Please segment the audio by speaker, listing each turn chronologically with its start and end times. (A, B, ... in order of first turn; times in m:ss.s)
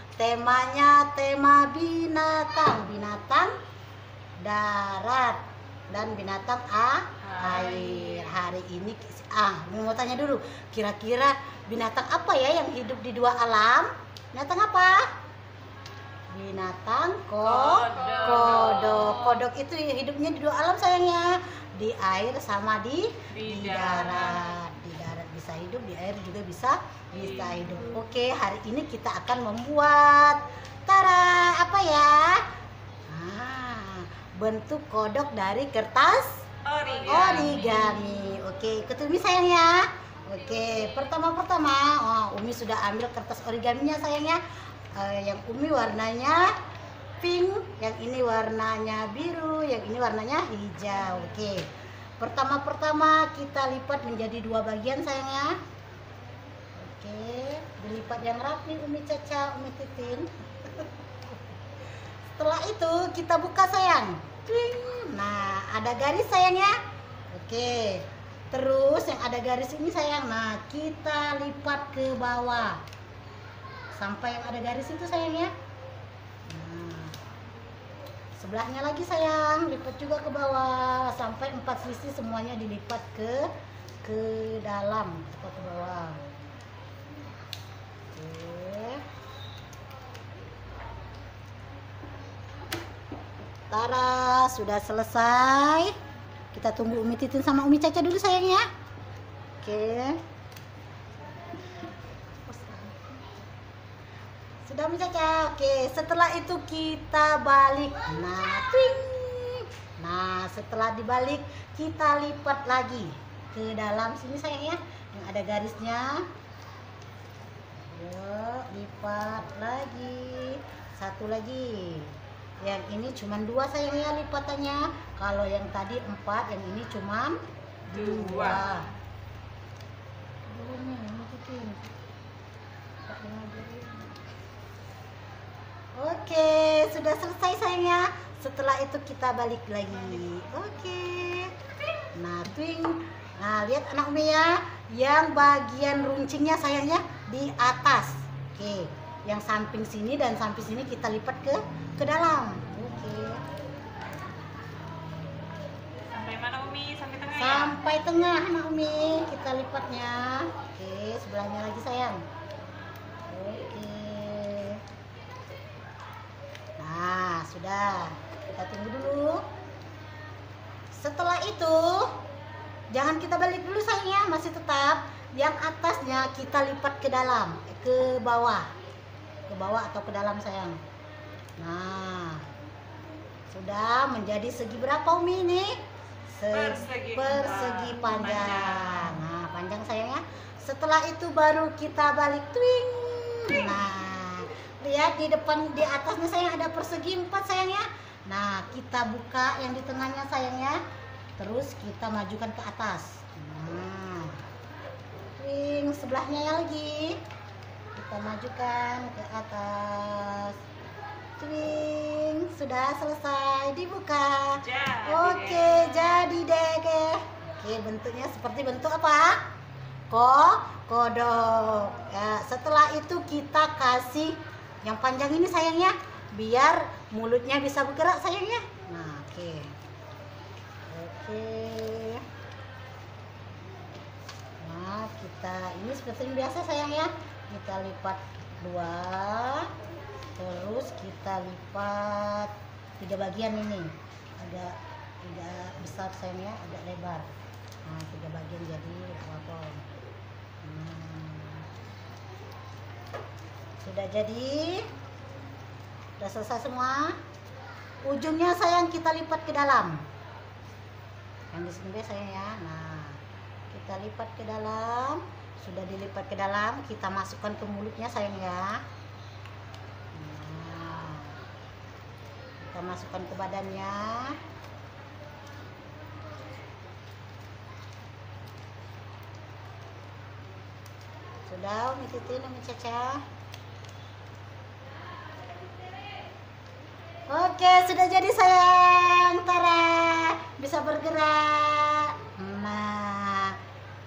0:00.2-0:03.5 A
0:04.4-0:15.1 A
0:07.5-0:08.1 B
0:16.3-0:32.5 A
0:17.7-0:18.2 B
0:18.8-0:19.2 B
0:23.4-0:23.8 B
0:33.1-0:36.5 A
0:36.6-0:37.5 B
0:37.0-0:44.4 A
0:44.9-0:46.5 A
0:47.2-0:51.7 A
0:52.2-0:55.6 A
0:56.8-1:00.9 A
1:02.3-1:06.8 A
1:07.3-1:12.8 A
1:13.9-1:15.5 A
1:16.5-1:17.2 A
1:18.4-1:23.5 A
1:24.0-1:26.2 A
1:28.1-1:29.0 A
1:33.7-1:36.0 A
1:36.5-1:38.7 A
1:39.6-1:40.2 A
1:42.5-1:43.2 A
1:44.6-1:56.3 A
1:57.9-2:08.9 A
2:07.9-2:08.4 B
2:10.5-2:11.8 A
2:13.1-2:14.2 A
2:16.0-2:33.4 A
2:36.1-2:37.7 B
2:37.3-2:42.2 A
2:43.3-2:44.8 A
2:46.8-2:49.4 A
2:50.9-2:52.2 A
2:52.9-2:58.7 A
2:59.5-3:00.8 A
3:01.6-3:02.5 A
3:03.5-3:20.8 A
3:06.6-3:09.0 B
3:21.4-3:24.4 A
3:25.4-3:27.2 A
3:28.0-3:30.6 A
3:31.4-3:39.4 A
3:34.7-3:35.8 B
3:40.1-3:49.7 A
3:50.9-3:52.3 A
3:54.6-3:59.7 A
4:00.4-4:07.3 A
4:07.8-4:09.9 A
4:10.6-4:11.7 A
4:13.8-4:14.9 A
4:16.2-4:17.2 A
4:18.0-4:20.1 A
4:21.5-4:23.2 A
4:23.7-4:28.8 A
4:30.1-4:31.4 A
4:32.6-4:34.4 A
4:41.5-4:43.2 A
4:47.3-4:53.6 A